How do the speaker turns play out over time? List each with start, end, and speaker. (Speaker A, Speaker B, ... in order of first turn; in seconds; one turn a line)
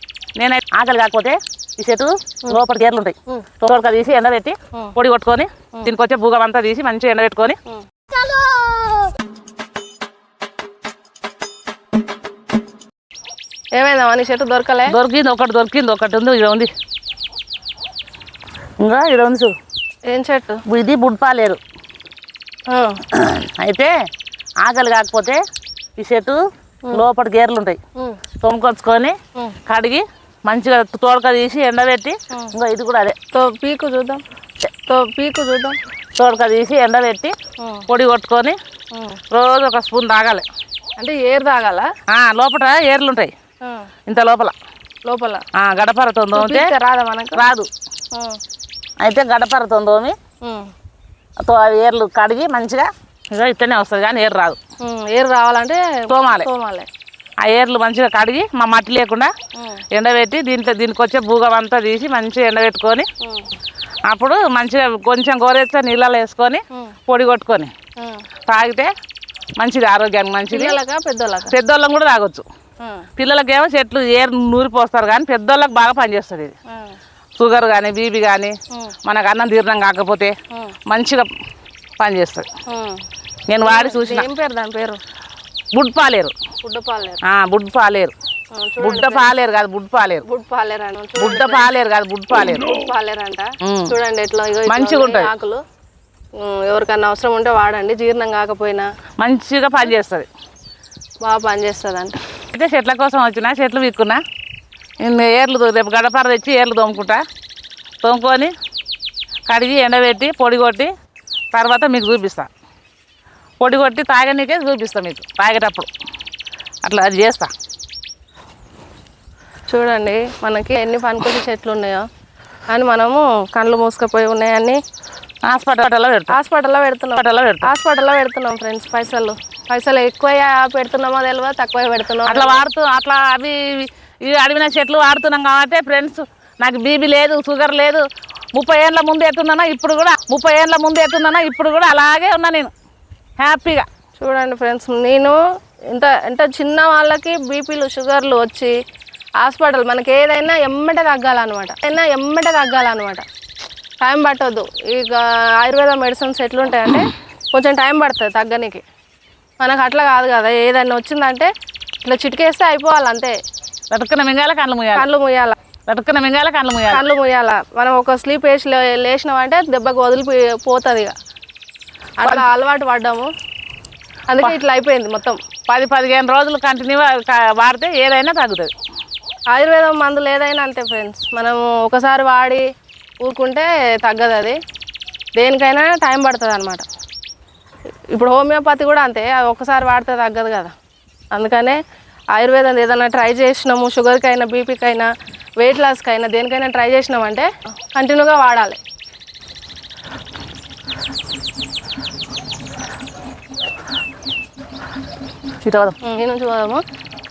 Speaker A: 0.4-7.6
Speaker B: 13.8-14.9
Speaker A: 14.9-16.7
Speaker A: 18.8-19.5
Speaker B: 20.1-20.6
Speaker A: 20.7-21.6
Speaker B: 22.7-23.0
Speaker A: 23.1-23.9
Speaker A: 24.6-25.4
Speaker A: 26.0-27.8
Speaker A: 28.4-33.1
Speaker B: 33.3-34.2
Speaker B: 34.9-35.8
Speaker A: 36.2-37.3
Speaker B: 37.6-37.9
Speaker A: 37.9-38.6
Speaker B: 38.9-39.2
Speaker A: 39.3-40.5
Speaker B: 41.0-41.9
Speaker A: 42.1-43.3
Speaker B: 43.6-43.9
Speaker A: 44.1-44.5
Speaker B: 45.0-45.4
Speaker A: 45.5-46.7
Speaker B: 46.3-47.4
Speaker A: 47.4-47.7
Speaker B: 48.1-48.4
Speaker A: 49.0-50.1
Speaker B: 50.4-50.7
Speaker A: 51.4-54.6
Speaker B: 54.8-56.9
Speaker A: 56.1-56.5
Speaker A: 57.4-59.3
Speaker B: 59.5-59.8
Speaker A: 59.9-63.1
Speaker B: 63.2-63.5
Speaker A: 64.1-67.7
Speaker B: 68.0-68.2
Speaker A: 68.5-68.9
Speaker A: 69.6-70.8
Speaker B: 70.5-71.5
Speaker A: 71.5-72.4
Speaker B: 72.8-73.1
Speaker A: 73.2-76.5
Speaker B: 76.7-77.0
Speaker A: 77.4-78.5
Speaker A: 79.0-80.3
Speaker A: 80.9-81.3
Speaker A: 82.0-82.5
Speaker B: 82.7-83.0
Speaker A: 83.5-84.3
Speaker B: 83.6-85.0
Speaker A: 85.7-86.3
Speaker B: 86.6-87.2
Speaker A: 87.2-88.1
Speaker B: 88.5-89.3
Speaker A: 88.8-90.2
Speaker B: 90.2-91.7
Speaker A: 91.2-92.7
Speaker B: 92.6-95.6
Speaker A: 93.6-93.9
Speaker A: 94.7-95.3
Speaker B: 96.4-98.9
Speaker A: 99.2-100.3
Speaker B: 101.2-102.2
Speaker A: 102.5-104.2
Speaker A: 105.0-107.2
Speaker A: 108.0-108.5
Speaker A: 109.5-110.9
Speaker A: 111.5-112.5
Speaker A: 113.6-115.9
Speaker A: 116.8-117.5
Speaker B: 119.7-122.0
Speaker B: 122.7-124.8
Speaker A: 125.5-126.3
Speaker B: 126.3-132.6
Speaker A: 127.2-127.7
Speaker A: 132.2-142.7
Speaker A: 143.4-143.9
Speaker B: 144.2-145.4
Speaker B: 145.9-148.8
Speaker B: 149.4-153.2
Speaker B: 154.0-158.8
Speaker B: 159.6-161.5
Speaker B: 162.0-163.3
Speaker A: 163.9-165.1
Speaker B: 164.9-165.6
Speaker A: 165.9-167.0
Speaker B: 166.9-171.1
Speaker B: 172.2-173.3
Speaker B: 174.3-175.4
Speaker A: 175.7-178.7
Speaker B: 179.5-182.6
Speaker B: 183.2-184.6
Speaker B: 185.4-186.8
Speaker B: 188.1-190.7
Speaker B: 191.3-191.8
Speaker B: 192.3-198.8
Speaker A: 205.6-205.9
Speaker B: 206.0-206.8